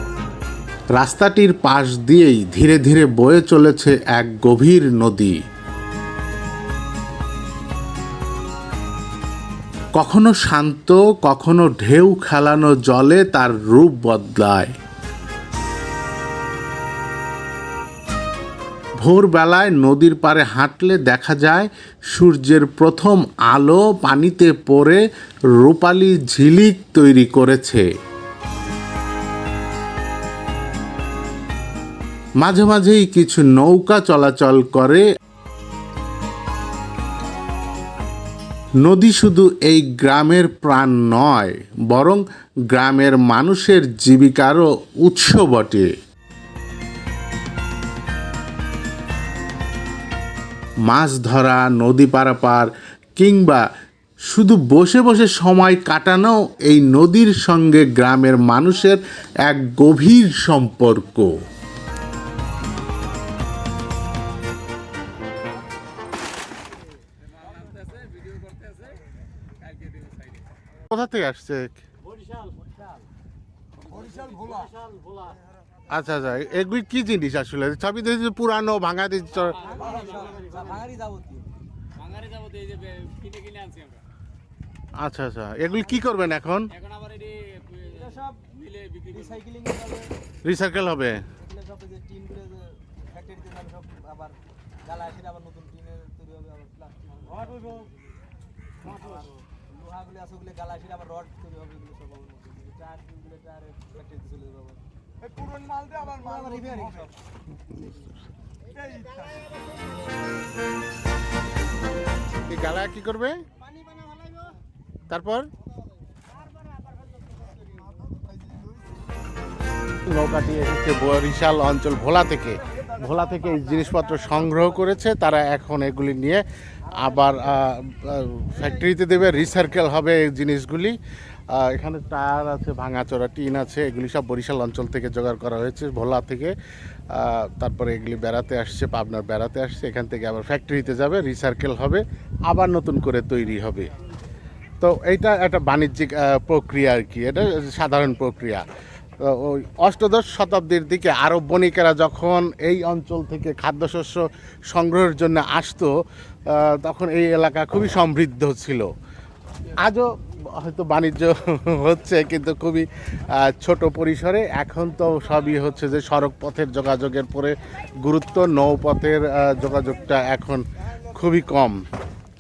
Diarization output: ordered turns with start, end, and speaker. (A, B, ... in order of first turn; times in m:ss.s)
0:01.0-0:05.4 A
0:10.0-0:14.8 A
0:19.0-0:25.0 A
0:25.6-0:27.9 A
0:32.4-0:35.1 A
0:38.8-0:45.9 A
0:50.9-0:53.6 A
0:54.3-1:01.4 A
1:08.0-1:08.9 B
1:10.9-1:11.8 A
1:14.3-1:14.7 C
1:15.9-1:19.8 A
1:19.6-1:21.5 C
1:22.3-1:24.0 B
1:25.0-1:26.8 A
1:26.8-1:27.4 B
1:27.7-1:30.1 C
1:30.4-1:31.3 A
1:31.4-1:37.9 C
1:39.8-1:44.8 C
1:45.8-1:47.1 C
1:47.7-1:48.0 A
1:52.5-1:53.4 A
1:55.1-1:55.5 A
2:00.1-2:11.0 A
2:11.5-2:16.5 A
2:17.1-2:23.9 A
2:24.8-2:28.7 A
2:29.2-2:38.9 A
2:39.8-2:51.8 A